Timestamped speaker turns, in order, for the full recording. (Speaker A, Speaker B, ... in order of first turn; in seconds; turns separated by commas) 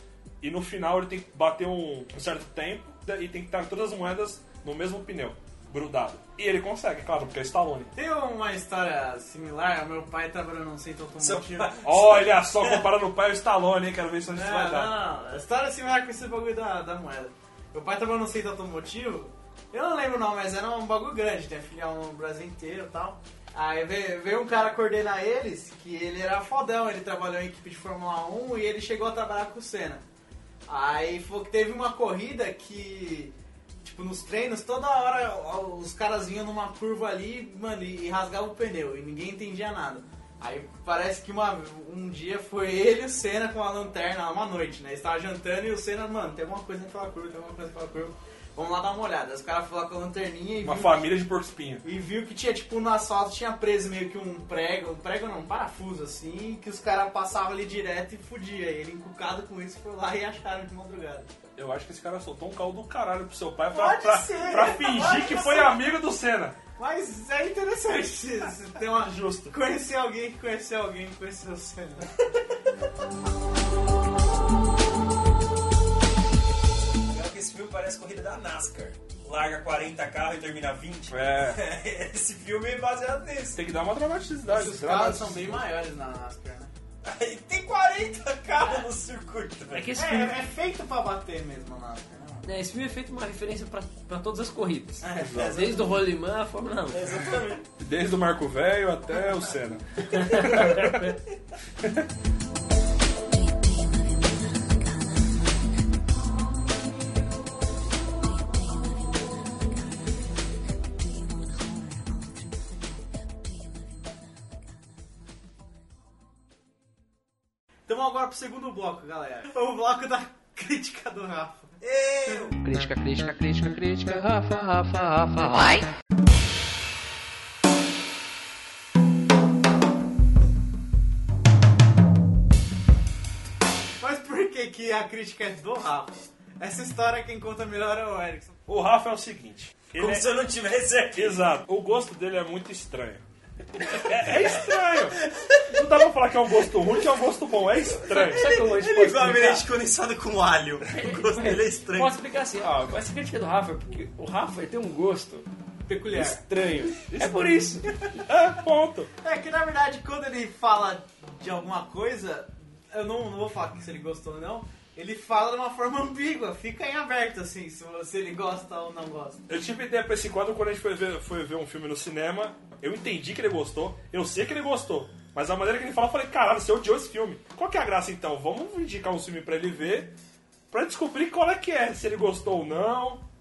Speaker A: 0.4-7.9, Speaker B: 7.9-11.8, Speaker C: 11.2-12.8, Speaker A: 11.8-14.9, Speaker B: 14.3-30.0, Speaker B: 30.7-51.1, Speaker A: 50.6-51.8, Speaker B: 51.8-61.3, Speaker A: 61.5-66.6, Speaker B: 63.7-65.9, Speaker B: 66.8-72.1, Speaker A: 69.0-69.5, Speaker C: 77.1-83.6, Speaker A: 81.1-81.6, Speaker A: 83.5-85.6, Speaker B: 84.5-86.7, Speaker C: 87.0-89.9, Speaker D: 89.7-90.3, Speaker B: 90.0-92.5, Speaker D: 92.4-97.0, Speaker B: 95.0-95.7, Speaker A: 95.1-95.6, Speaker C: 96.9-97.7, Speaker A: 97.8-101.2, Speaker D: 100.1-101.1, Speaker A: 101.8-102.1, Speaker B: 117.9-121.7, Speaker C: 121.8-122.6, Speaker E: 122.6-125.9, Speaker B: 134.0-138.6, Speaker A: 138.7-140.3, Speaker C: 139.9-141.4, Speaker A: 141.1-143.2, Speaker A: 143.9-148.5, Speaker D: 148.0-149.6, Speaker C: 148.4-152.2, Speaker D: 150.9-155.4, Speaker B: 155.9-156.4, Speaker D: 156.1-157.8, Speaker A: 157.1-157.6, Speaker A: 158.3-159.1, Speaker B: 159.2-169.4, Speaker A: 169.5-180.1, Speaker A: 180.7-183.2